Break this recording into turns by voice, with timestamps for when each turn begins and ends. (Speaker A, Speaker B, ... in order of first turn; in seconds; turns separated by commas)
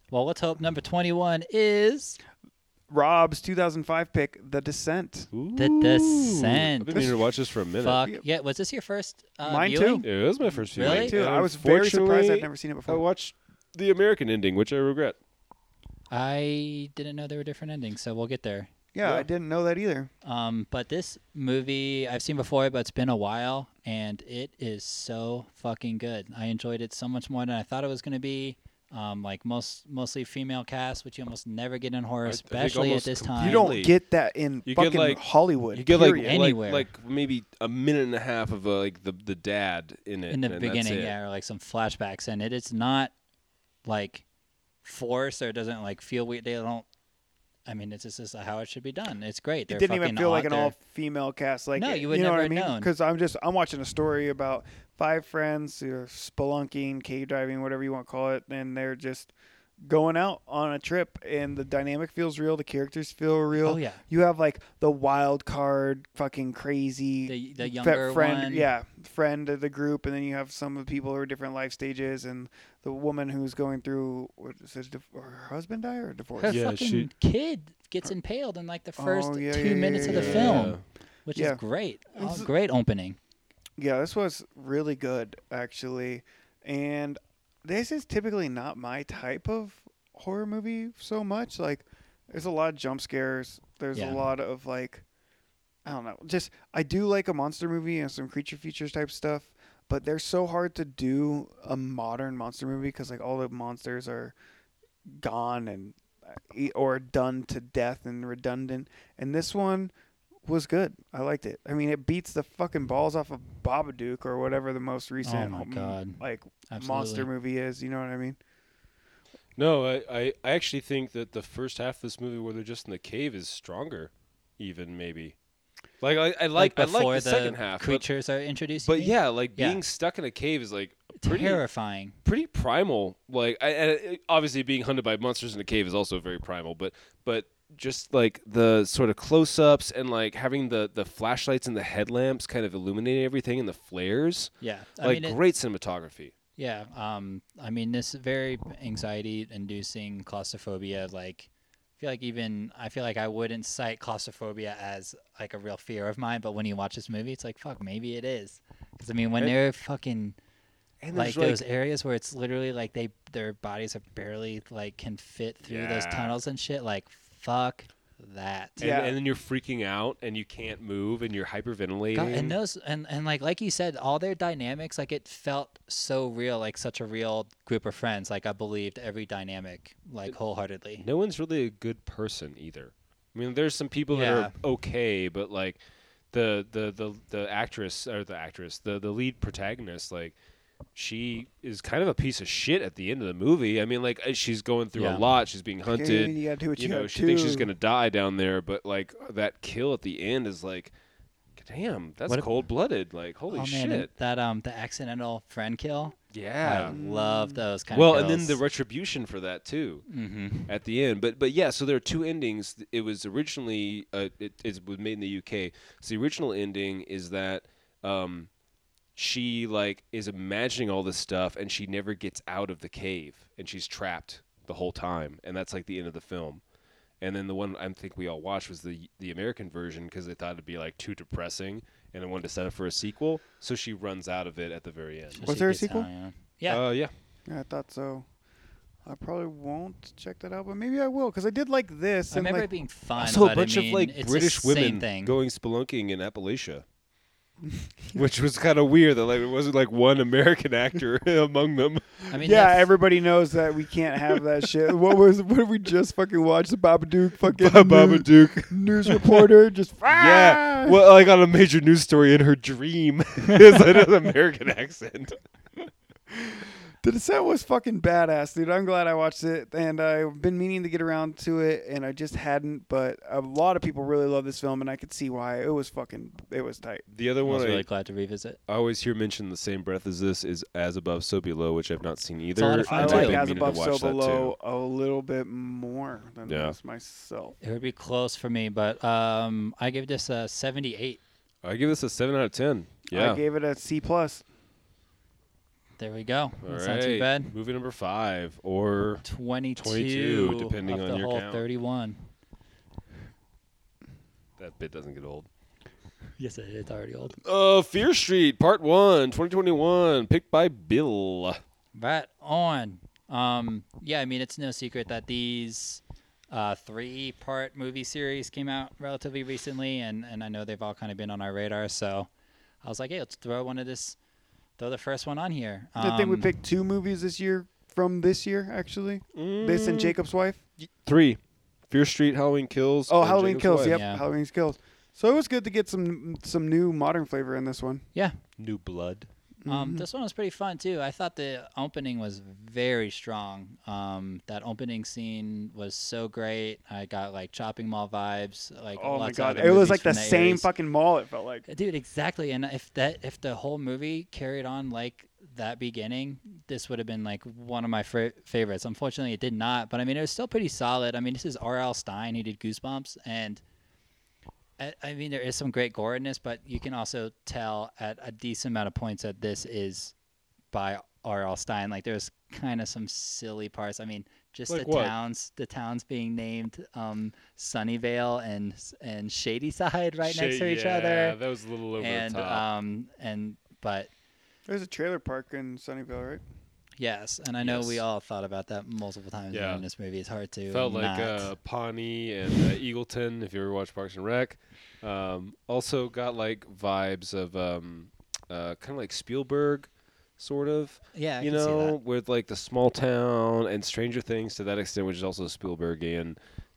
Speaker A: 0.1-2.2, Speaker B: 2.9-5.3, Speaker C: 5.3-8.0, Speaker A: 5.5-7.1, Speaker A: 7.8-10.1, Speaker B: 9.4-10.1, Speaker C: 10.0-15.2, Speaker A: 10.7-11.2, Speaker B: 10.7-13.0, Speaker A: 16.1-18.7, Speaker B: 18.9-20.1, Speaker A: 20.2-33.7, Speaker C: 32.2-33.9, Speaker B: 33.4-36.5, Speaker C: 34.6-41.1, Speaker A: 36.2-36.9, Speaker A: 40.3-43.1, Speaker A: 43.9-44.2, Speaker A: 44.8-46.9, Speaker A: 47.7-50.8, Speaker B: 49.7-59.3, Speaker A: 51.8-52.9, Speaker B: 59.8-76.6, Speaker A: 63.6-64.0, Speaker A: 67.2-68.7, Speaker A: 76.4-83.2, Speaker C: 76.5-77.1, Speaker B: 79.0-80.7, Speaker C: 80.0-80.8, Speaker B: 81.3-81.6, Speaker B: 82.1-82.5, Speaker B: 83.8-95.0, Speaker A: 93.9-94.2, Speaker B: 95.8-104.3, Speaker B: 105.1-109.9, Speaker B: 110.4-118.4, Speaker A: 115.2-117.3, Speaker C: 119.6-125.3, Speaker C: 126.0-128.0, Speaker A: 126.5-129.8, Speaker C: 128.8-131.6, Speaker A: 131.2-132.2, Speaker C: 132.2-146.3, Speaker A: 144.6-145.4, Speaker A: 146.6-160.4, Speaker C: 161.0-161.6, Speaker A: 161.1-168.9, Speaker C: 165.6-166.4, Speaker C: 168.8-172.6, Speaker B: 168.8-169.2, Speaker A: 172.1-181.0, Speaker C: 181.0-185.8, Speaker A: 184.1-184.5, Speaker C: 186.3-190.3, Speaker C: 190.9-200.9, Speaker A: 194.9-195.2, Speaker B: 195.9-197.7, Speaker C: 201.6-204.1, Speaker A: 203.5-208.6, Speaker C: 206.3-207.0, Speaker B: 206.8-207.6, Speaker C: 207.9-210.1, Speaker A: 210.1-210.7, Speaker C: 210.7-218.5, Speaker C: 219.2-226.6, Speaker C: 227.2-235.5, Speaker A: 235.3-236.8, Speaker B: 235.4-236.1, Speaker C: 236.7-237.1, Speaker B: 237.5-238.2, Speaker B: 239.1-242.7, Speaker A: 242.3-245.3, Speaker C: 243.2-246.8, Speaker B: 247.7-248.2, Speaker C: 248.1-252.2, Speaker A: 252.3-252.9, Speaker B: 252.4-261.0, Speaker C: 257.4-259.4, Speaker C: 260.1-265.4, Speaker B: 266.3-277.0, Speaker C: 277.1-277.9, Speaker A: 277.4-278.6, Speaker C: 278.7-284.5, Speaker A: 282.6-283.4, Speaker B: 282.9-287.6, Speaker C: 286.4-286.8, Speaker A: 287.6-291.2, Speaker C: 291.6-293.4, Speaker B: 293.1-294.4, Speaker A: 296.0-297.5, Speaker C: 296.6-299.2, Speaker A: 299.2-302.2, Speaker C: 299.8-301.6, Speaker C: 304.6-305.5, Speaker A: 306.4-307.4, Speaker C: 307.4-311.6, Speaker A: 311.9-322.3, Speaker A: 322.8-324.2, Speaker A: 324.8-326.5, Speaker B: 326.0-330.6, Speaker C: 329.4-330.1, Speaker C: 330.8-334.0, Speaker B: 333.1-338.0, Speaker A: 333.8-334.2, Speaker C: 338.6-339.3, Speaker B: 339.6-340.0, Speaker A: 339.7-350.7, Speaker B: 349.0-351.6, Speaker A: 351.7-363.6, Speaker A: 364.8-370.1, Speaker A: 370.7-381.4, Speaker C: 374.7-375.1, Speaker C: 380.2-382.6, Speaker A: 382.0-384.1, Speaker B: 384.7-386.4, Speaker A: 387.0-391.5, Speaker C: 387.6-388.0, Speaker C: 389.5-389.8, Speaker C: 390.7-406.4, Speaker A: 401.1-401.9